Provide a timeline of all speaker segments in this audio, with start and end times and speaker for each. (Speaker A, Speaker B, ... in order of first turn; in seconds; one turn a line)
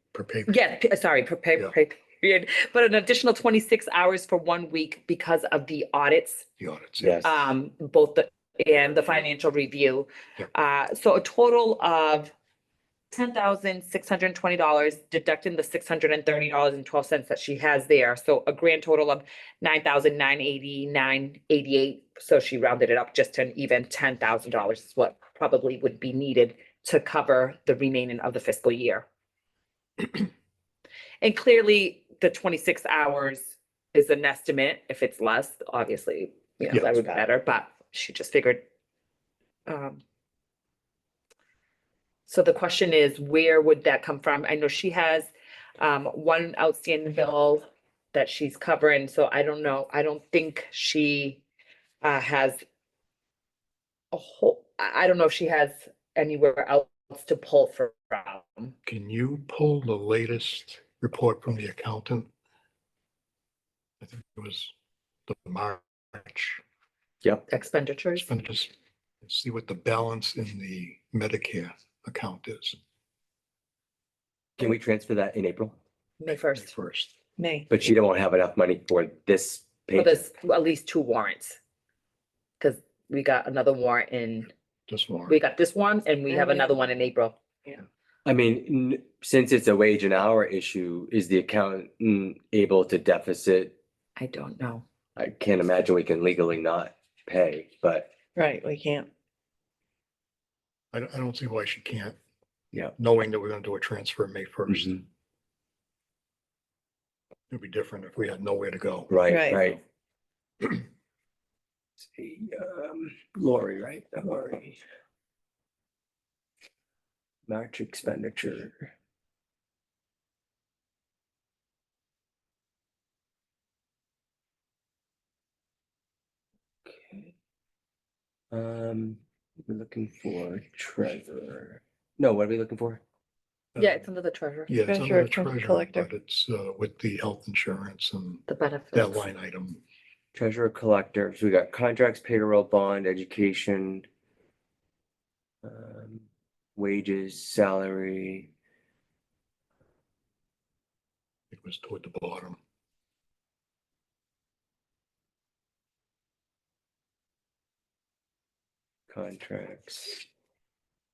Speaker A: 0.1-0.6
Speaker B: 0.5-6.5
Speaker A: 6.6-7.2
Speaker C: 7.0-7.5
Speaker B: 7.2-12.3
Speaker B: 13.1-29.1
Speaker B: 31.2-38.6
Speaker C: 36.9-37.2
Speaker B: 39.7-40.0
Speaker B: 42.3-51.4
Speaker B: 52.0-52.6
Speaker B: 54.1-58.8
Speaker A: 58.8-62.3
Speaker A: 64.0-64.7
Speaker A: 65.3-66.6
Speaker B: 67.5-68.3
Speaker A: 68.2-68.7
Speaker A: 69.2-72.8
Speaker C: 74.6-75.8
Speaker B: 76.2-76.7
Speaker A: 76.2-77.1
Speaker D: 77.4-77.7
Speaker C: 77.7-80.2
Speaker B: 80.0-81.6
Speaker B: 82.6-84.5
Speaker A: 84.9-85.4
Speaker B: 85.3-87.4
Speaker D: 86.3-86.7
Speaker C: 88.2-93.8
Speaker B: 94.2-94.8
Speaker C: 95.2-98.1
Speaker D: 98.4-99.1
Speaker A: 100.9-102.2
Speaker A: 103.0-105.0
Speaker C: 104.7-105.0
Speaker A: 107.5-109.8
Speaker C: 109.1-109.8
Speaker D: 109.3-109.6
Speaker C: 112.1-114.8
Speaker C: 117.5-118.9
Speaker C: 128.5-133.0
Speaker B: 133.8-134.7
Speaker A: 134.7-139.8
Speaker D: 134.8-136.1
Speaker B: 138.5-139.3
Speaker C: 140.3-144.1
Speaker C: 145.6-146.2
Speaker C: 146.8-148.5
Speaker A: 151.5-152.6
Speaker C: 159.1-160.2